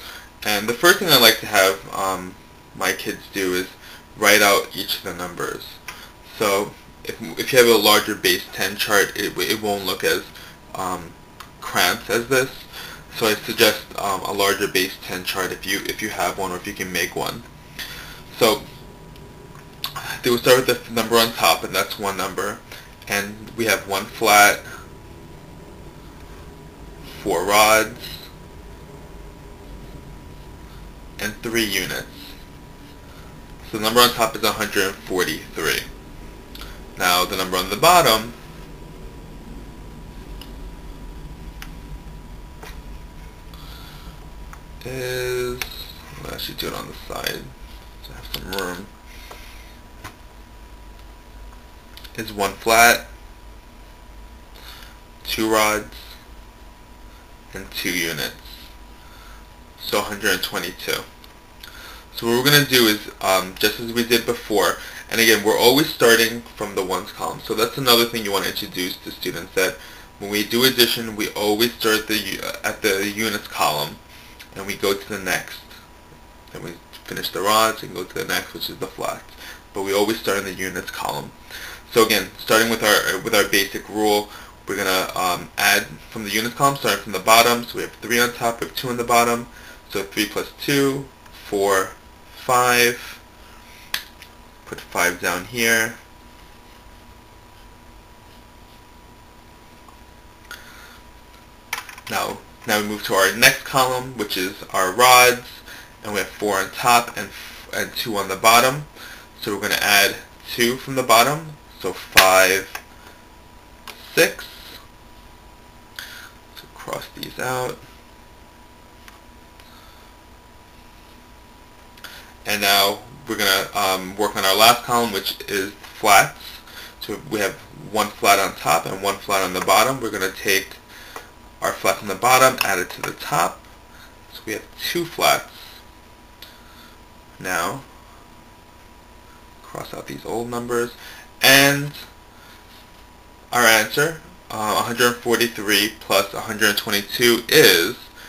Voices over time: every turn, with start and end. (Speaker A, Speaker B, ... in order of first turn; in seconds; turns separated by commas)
Speaker A: 0.4-17.5, Speaker A: 18.3-18.7, Speaker A: 20.0-24.7, Speaker A: 27.1-28.3, Speaker A: 31.2-32.3, Speaker A: 33.6-35.9, Speaker A: 37.0-38.4, Speaker A: 44.8-48.9, Speaker A: 52.1-53.1, Speaker A: 55.2-56.2, Speaker A: 57.5-58.7, Speaker A: 59.8-61.1, Speaker A: 62.1-74.0, Speaker A: 74.5-75.7, Speaker A: 76.5-81.3, Speaker A: 81.9-93.2, Speaker A: 94.6-96.0, Speaker A: 102.1-112.8, Speaker A: 114.0-114.8, Speaker A: 116.6-117.8, Speaker A: 122.5-130.8, Speaker A: 131.6-133.7, Speaker A: 134.3-135.8, Speaker A: 137.4-137.9, Speaker A: 139.6-142.1, Speaker A: 143.5-148.1